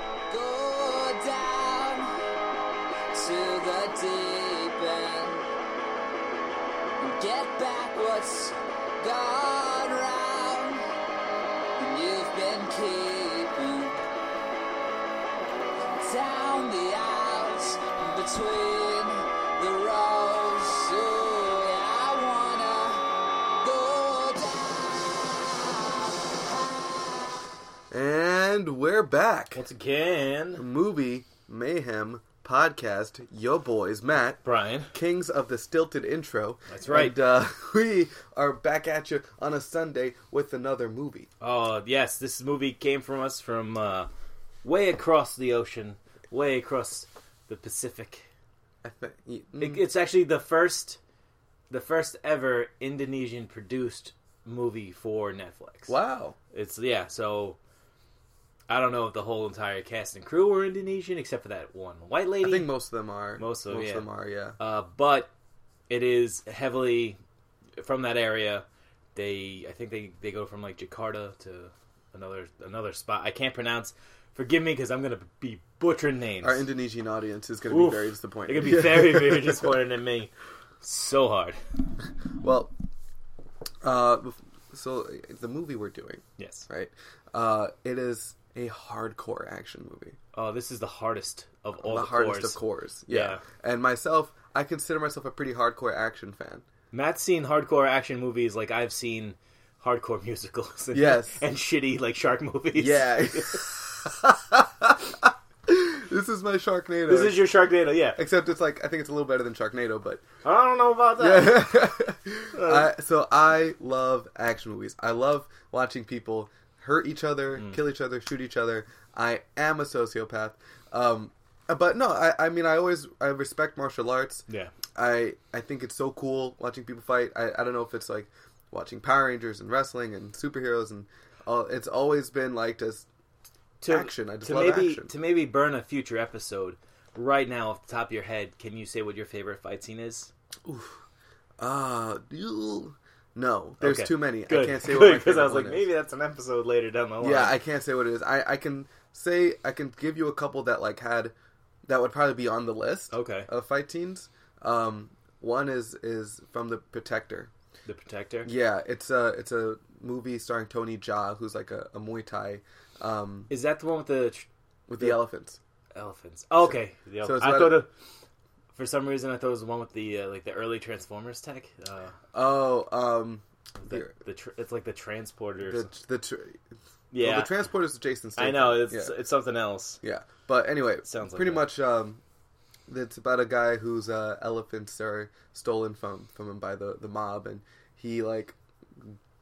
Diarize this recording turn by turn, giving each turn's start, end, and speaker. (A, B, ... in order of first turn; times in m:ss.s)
0:00.3-0:02.1 A
0:03.1-0:05.4 A
0:07.0-0:10.9 A
0:11.8-0:14.0 A
0:15.9-0:23.0 A
0:23.6-0:27.4 A
0:27.9-0:29.6 B
0:29.6-0:30.6 C
0:30.6-0:34.4 B
0:34.4-0:34.9 C
0:34.9-0:41.3 B
0:36.7-0:37.2 C
0:41.4-0:44.1 C
0:44.6-0:48.3 C
0:48.8-0:49.8 B
0:49.6-0:51.0 C
0:51.7-0:56.0 C
0:55.9-0:56.4 B
0:56.5-0:57.6 C
0:58.7-1:02.7 C
1:02.4-1:04.6 B
1:03.4-1:04.1 C
1:04.6-1:05.3 C
1:05.9-1:07.2 C
1:07.8-1:16.6 C
1:16.4-1:19.7 B
1:17.7-1:21.6 C
1:22.4-1:22.7 B
1:23.8-1:30.2 B
1:26.4-1:26.7 C
1:30.4-1:33.4 C
1:31.8-1:36.7 B
1:36.9-1:43.7 C
1:40.9-1:41.4 B
1:42.8-1:47.4 B
1:47.1-1:48.2 C
1:48.2-1:50.2 B
1:50.4-1:51.8 C
1:51.2-2:13.1 B
1:52.5-1:52.9 C
2:04.5-2:04.7 C
2:13.8-2:20.3 C
2:13.9-2:15.1 B
2:20.7-2:21.0 B
2:21.6-2:25.9 B
2:23.8-2:27.6 C
2:27.2-2:31.3 B
2:31.9-2:37.5 B
2:33.1-2:33.5 C
2:37.9-2:38.5 C
2:38.4-2:43.5 B
2:43.5-2:44.5 C
2:44.9-2:45.6 B
2:46.0-2:47.9 C
2:46.6-2:47.8 B
2:48.8-2:52.2 C
2:52.3-2:54.1 B
2:53.8-2:55.9 C
2:55.6-2:56.6 B
2:57.1-2:57.6 C
2:57.2-2:59.1 B
2:58.4-3:00.0 C
3:00.0-3:02.2 B
3:01.0-3:01.7 C
3:02.9-3:09.2 B